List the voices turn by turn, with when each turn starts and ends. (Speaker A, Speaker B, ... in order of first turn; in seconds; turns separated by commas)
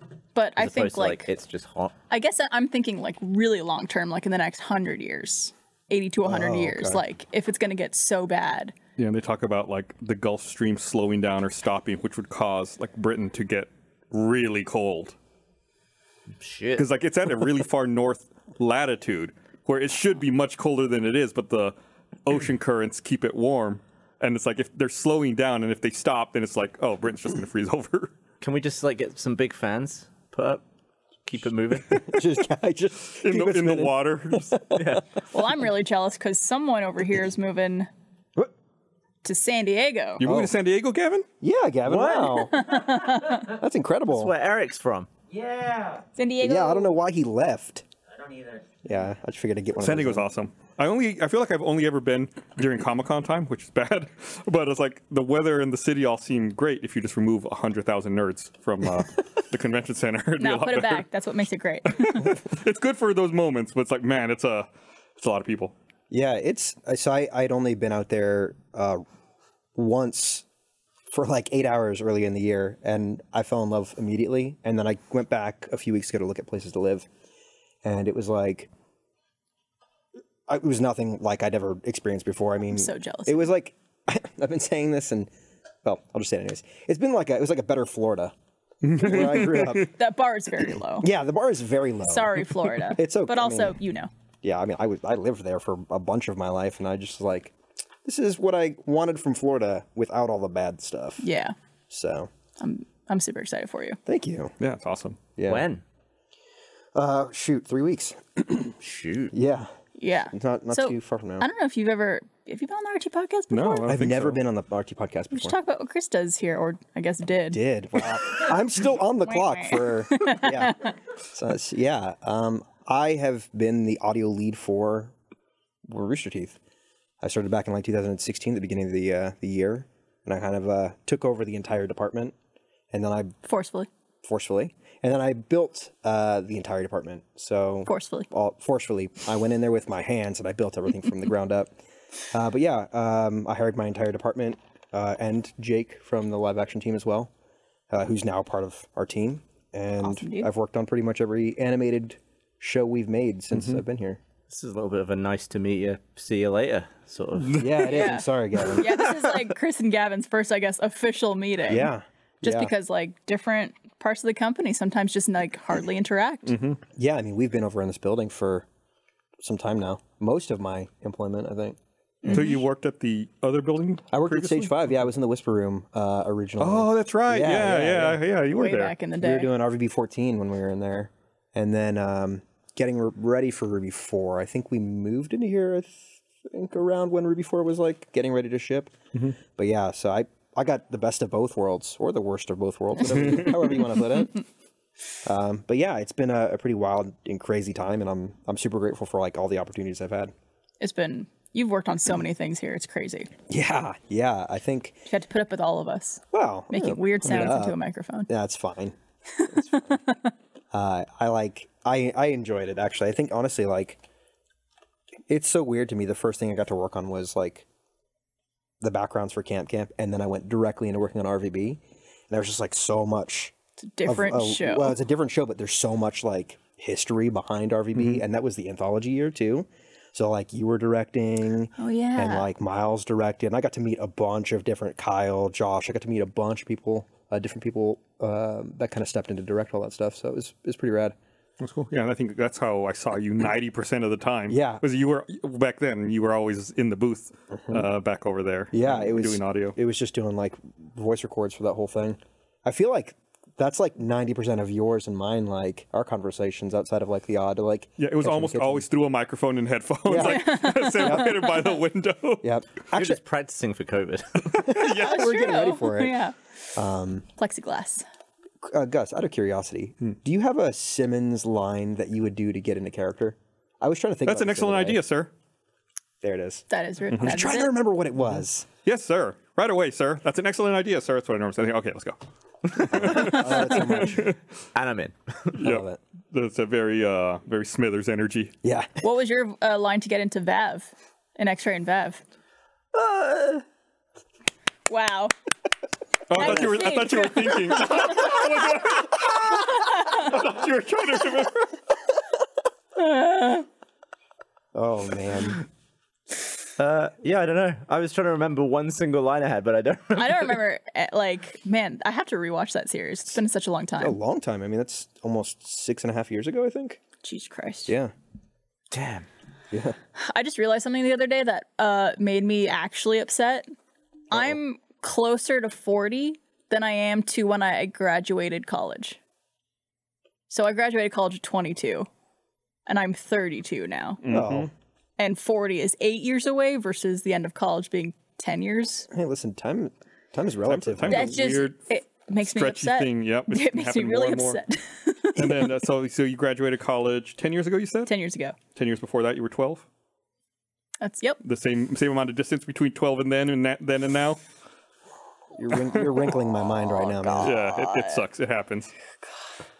Speaker A: 0.3-1.3, Speaker B: 0.6-1.9, Speaker A: 2.1-8.7, Speaker C: 6.2-7.0, Speaker D: 9.0-15.2, Speaker B: 16.4-16.9, Speaker D: 16.8-28.1, Speaker B: 28.4-30.6, Speaker B: 31.2-32.1, Speaker C: 31.9-35.0, Speaker D: 33.2-34.5, Speaker B: 34.7-35.0, Speaker A: 35.3-37.9, Speaker A: 39.2-40.2, Speaker D: 40.2-41.3, Speaker C: 40.2-40.5, Speaker C: 41.4-42.7, Speaker B: 41.9-42.5, Speaker A: 42.5-43.4, Speaker E: 42.7-43.6, Speaker C: 43.5-44.3, Speaker B: 44.1-45.1, Speaker E: 45.3-46.1, Speaker A: 46.1-46.9, Speaker C: 46.4-47.8, Speaker E: 48.1-48.8, Speaker C: 48.8-50.3, Speaker D: 49.8-61.0, Speaker A: 60.4-62.3, Speaker D: 61.9-65.7, Speaker C: 66.1-69.0, Speaker C: 69.8-70.4, Speaker C: 71.1-77.0, Speaker C: 77.8-78.7, Speaker C: 80.5-85.3, Speaker A: 82.7-83.5, Speaker C: 85.8-88.3, Speaker D: 88.8-89.9, Speaker C: 88.9-89.9, Speaker A: 89.8-91.1, Speaker C: 91.0-93.8, Speaker A: 92.1-94.1, Speaker C: 94.4-97.5, Speaker C: 98.0-101.2, Speaker A: 101.2-101.5, Speaker C: 101.9-102.3, Speaker A: 102.6-104.0, Speaker C: 104.0-104.5, Speaker D: 104.6-105.2, Speaker C: 105.4-105.7, Speaker B: 105.5-105.8, Speaker C: 106.9-108.7, Speaker B: 108.8-109.3, Speaker C: 109.3-109.7, Speaker A: 110.0-113.9, Speaker C: 110.3-111.5, Speaker D: 113.5-114.4, Speaker C: 113.9-115.6, Speaker A: 115.3-117.6, Speaker C: 117.5-125.1, Speaker A: 119.2-120.9, Speaker C: 125.8-126.6, Speaker C: 127.2-132.3, Speaker C: 132.9-133.3, Speaker A: 133.4-133.9, Speaker C: 134.2-141.7, Speaker A: 137.9-138.3, Speaker C: 142.3-147.3, Speaker C: 147.9-154.2, Speaker A: 150.0-150.5, Speaker D: 153.5-153.8, Speaker B: 154.5-157.7, Speaker C: 157.5-159.3, Speaker A: 157.8-161.9, Speaker C: 161.7-162.7, Speaker A: 162.4-166.5, Speaker D: 166.5-166.8, Speaker C: 166.9-168.7, Speaker C: 169.4-172.5, Speaker A: 172.2-172.6, Speaker D: 172.3-174.9, Speaker C: 174.1-178.2, Speaker D: 176.6-178.9, Speaker A: 178.5-179.5, Speaker C: 179.2-188.9, Speaker C: 189.5-194.4, Speaker D: 193.1-193.5, Speaker C: 195.2-200.3, Speaker A: 200.8-203.3, Speaker C: 203.5-205.0, Speaker A: 205.1-208.3, Speaker C: 206.3-207.8, Speaker C: 208.3-210.0, Speaker A: 209.4-210.3, Speaker C: 210.7-214.0, Speaker C: 215.3-217.7, Speaker C: 218.8-223.5, Speaker A: 223.8-225.0, Speaker C: 224.0-241.2, Speaker D: 227.9-228.2, Speaker A: 231.8-232.5, Speaker D: 241.6-249.8, Speaker C: 244.5-244.8, Speaker C: 247.5-247.9, Speaker C: 248.7-258.9, Speaker D: 258.0-262.5, Speaker C: 260.1-261.4, Speaker A: 260.2-261.7, Speaker C: 262.4-263.2, Speaker B: 262.9-264.6, Speaker C: 264.5-266.2, Speaker D: 264.6-265.3, Speaker A: 264.9-266.3, Speaker C: 266.7-267.2, Speaker A: 267.4-268.0, Speaker C: 268.6-275.0, Speaker D: 274.2-275.3, Speaker C: 276.2-276.6, Speaker A: 276.7-277.8, Speaker C: 277.2-278.7, Speaker D: 278.8-284.4, Speaker C: 282.9-284.3, Speaker B: 284.7-285.5, Speaker D: 285.5-288.5, Speaker C: 285.6-286.0, Speaker C: 288.6-289.0, Speaker A: 289.0-292.2, Speaker B: 292.9-293.6, Speaker A: 294.9-295.3, Speaker D: 296.3-301.7, Speaker A: 296.3-298.3, Speaker A: 302.9-303.6, Speaker C: 304.7-305.6, Speaker B: 306.8-310.6, Speaker A: 310.1-314.2, Speaker C: 314.0-317.0, Speaker A: 317.2-317.9, Speaker C: 317.9-318.1, Speaker B: 318.9-319.2, Speaker A: 320.1-323.7, Speaker C: 324.3-324.6, Speaker A: 324.3-329.2, Speaker A: 330.5-332.1, Speaker A: 332.9-334.2, Speaker D: 334.2-334.7, Speaker C: 334.3-334.7, Speaker A: 335.2-339.1, Speaker C: 339.1-341.4, Speaker D: 340.7-341.8, Speaker A: 341.1-345.6, Speaker D: 342.4-344.6, Speaker D: 345.4-348.1, Speaker A: 348.1-348.6, Speaker D: 348.7-349.8, Speaker A: 351.0-351.4, Speaker D: 351.4-354.4, Speaker C: 355.5-357.6, Speaker A: 356.8-358.2, Speaker D: 357.4-358.9